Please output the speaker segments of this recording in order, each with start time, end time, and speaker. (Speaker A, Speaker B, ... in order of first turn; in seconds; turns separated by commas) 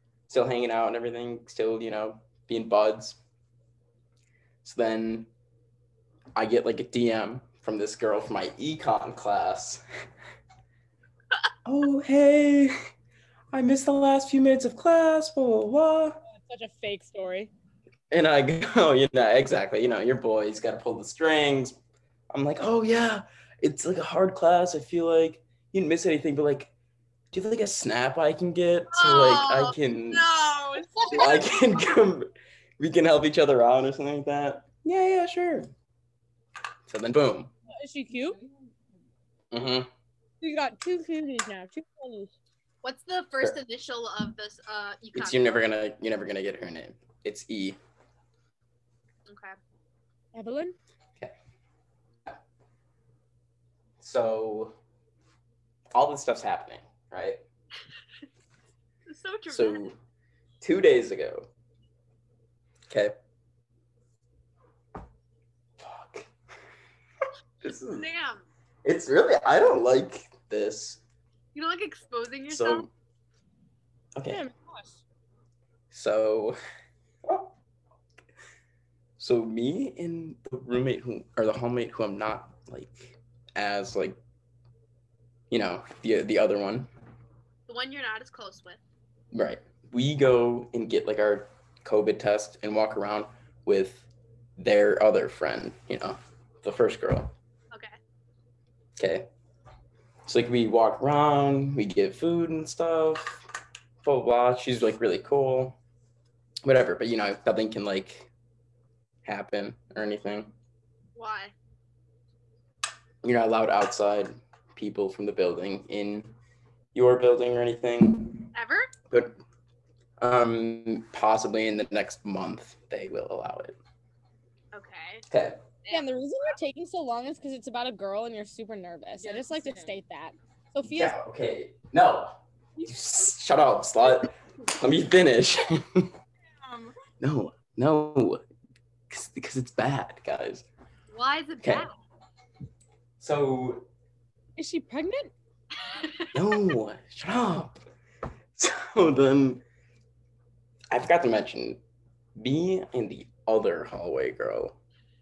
Speaker A: 0.3-3.2, Speaker A: 4.6-5.3, Speaker A: 6.3-9.8, Speaker A: 11.6-12.7, Speaker A: 13.5-16.2, Speaker B: 16.3-17.5, Speaker A: 18.1-21.8, Speaker A: 22.3-26.7, Speaker A: 27.3-30.3, Speaker C: 28.9-31.5, Speaker B: 30.8-31.4, Speaker A: 31.1-35.7, Speaker A: 36.9-37.5, Speaker B: 37.7-38.4, Speaker A: 39.5-39.9, Speaker B: 40.4-42.3, Speaker C: 42.8-45.6, Speaker A: 45.1-47.8, Speaker C: 49.3-49.6, Speaker B: 50.3-50.8, Speaker A: 54.0-54.8, Speaker A: 55.9-57.4, Speaker C: 59.1-59.9, Speaker A: 59.5-60.0, Speaker A: 60.6-61.5, Speaker A: 62.9-63.1, Speaker A: 65.8-66.3, Speaker A: 67.6-68.0, Speaker C: 67.8-68.5, Speaker A: 68.8-71.0, Speaker C: 71.5-72.9, Speaker A: 72.5-72.9, Speaker A: 74.2-74.4, Speaker B: 74.3-75.0, Speaker A: 75.9-76.6, Speaker A: 77.2-77.5, Speaker A: 79.2-84.2, Speaker A: 85.5-86.9, Speaker C: 87.7-88.8, Speaker A: 89.3-94.1, Speaker A: 94.6-97.3, Speaker A: 99.0-99.3, Speaker A: 100.2-103.5, Speaker A: 104.0-105.8, Speaker A: 106.6-108.3, Speaker A: 109.2-110.5, Speaker C: 111.2-111.5, Speaker A: 113.2-116.3, Speaker A: 116.9-118.5, Speaker C: 118.5-118.9, Speaker A: 119.1-119.4, Speaker A: 120.2-123.8, Speaker C: 124.7-125.2, Speaker A: 125.3-125.6, Speaker C: 125.8-126.1, Speaker B: 125.9-131.2, Speaker C: 129.2-129.8, Speaker A: 130.9-136.1, Speaker B: 136.6-136.9, Speaker A: 137.2-138.4, Speaker A: 139.1-140.7, Speaker C: 141.1-141.9, Speaker A: 141.6-141.9, Speaker A: 143.2-143.9, Speaker B: 144.6-145.3, Speaker C: 145.9-146.3, Speaker A: 146.3-147.8, Speaker A: 148.6-149.6, Speaker A: 150.9-151.8, Speaker A: 152.4-154.8